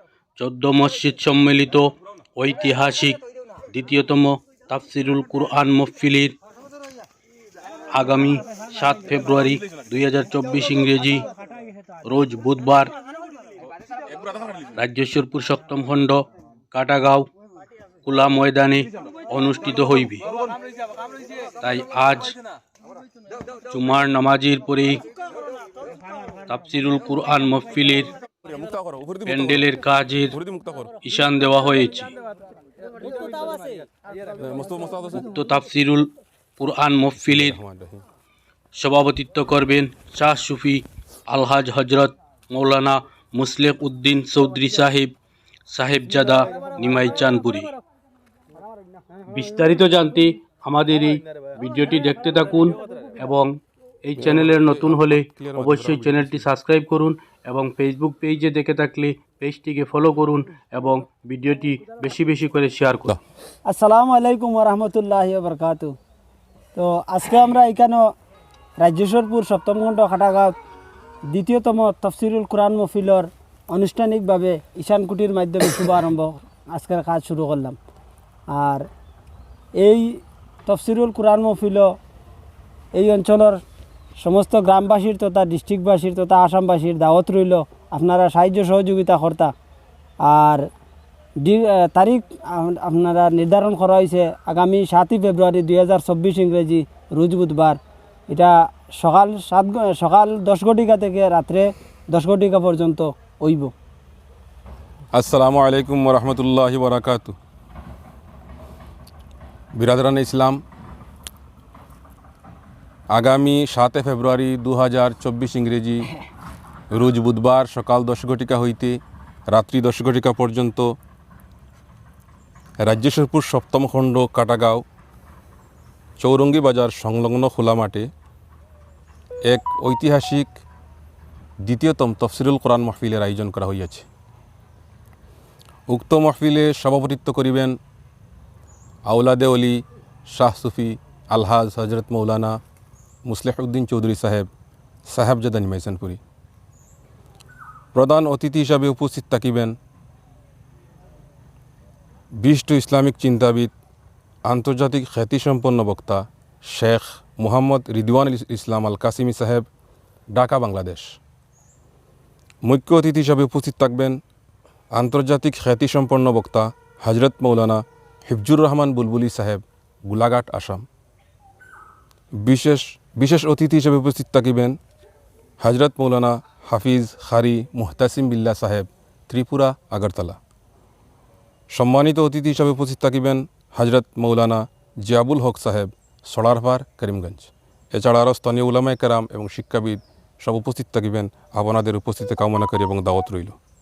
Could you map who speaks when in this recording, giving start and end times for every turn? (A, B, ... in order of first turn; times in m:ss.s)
0:00.4-0:03.2 A
0:03.7-0:06.4 A
0:07.9-0:11.3 A
0:12.0-0:12.9 A
0:14.7-0:17.3 A
0:18.0-0:20.3 A
0:21.6-0:22.3 A
0:23.7-0:25.0 A
0:26.5-0:28.1 A
0:28.5-0:29.7 B
0:29.3-0:30.4 A
0:30.3-0:31.0 B
0:31.0-0:32.1 A
0:34.4-0:35.2 B
0:35.1-0:37.6 A
0:37.3-0:38.0 B
0:38.7-0:45.1 A
0:45.7-0:47.7 A
0:49.3-1:03.2 A
0:54.2-0:56.5 B
1:03.7-1:06.0 C
1:06.7-1:08.1 C
1:08.8-1:10.5 C
1:11.3-1:17.8 C
1:18.5-1:18.9 C
1:19.8-1:21.9 C
1:22.9-1:23.6 C
1:24.2-1:29.5 C
1:30.2-1:30.6 C
1:31.4-1:37.8 C
1:38.3-1:43.7 C
1:45.1-1:47.4 B
1:49.8-1:50.6 B
1:53.1-1:56.1 B
1:56.9-1:59.0 B
1:59.5-2:00.9 B
2:02.8-2:04.8 B
2:06.2-2:08.1 B
2:09.5-2:10.5 B
2:11.6-2:14.1 B
2:15.9-2:17.8 B
2:19.1-2:22.6 B
2:23.3-2:24.5 B
2:25.1-2:26.2 B
2:28.0-2:29.8 B
2:32.4-2:33.7 B
2:34.5-2:39.7 B
2:40.3-2:41.2 B
2:42.6-2:44.2 B
2:45.0-2:50.8 B
2:52.4-2:54.8 B
2:55.6-3:00.4 B
3:01.7-3:13.6 B